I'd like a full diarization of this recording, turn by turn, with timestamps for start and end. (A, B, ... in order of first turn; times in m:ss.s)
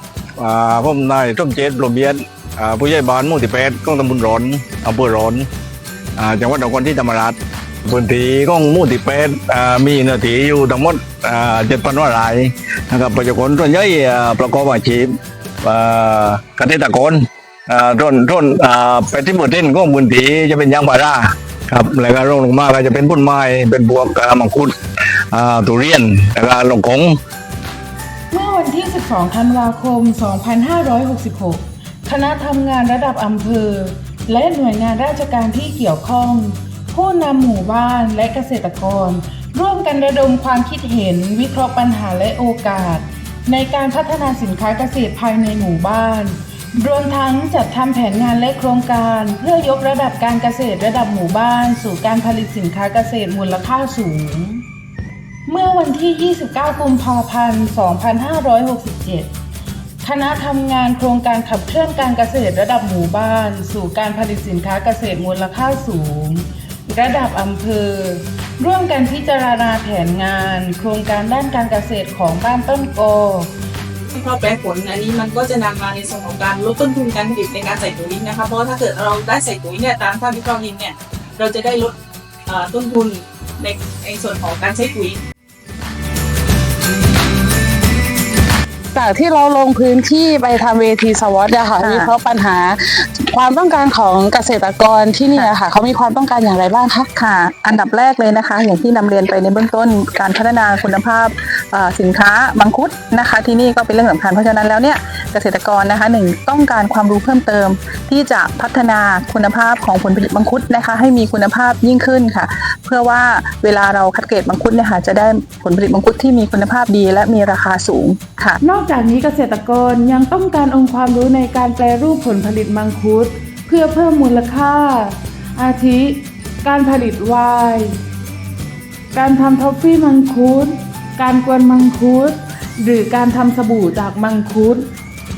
0:00.4-0:05.5 A
0:06.2-0:15.1 A
0:15.6-0:24.7 A
0:25.3-0:27.2 A
0:28.3-0:54.6 B
0:55.5-0:59.3 B
1:00.0-1:13.5 B
1:14.1-1:21.9 C
1:22.5-1:25.2 C
1:29.0-1:37.0 D
1:31.8-1:32.1 E
1:37.1-1:58.6 E
1:58.6-2:07.9 B
2:09.1-2:14.8 B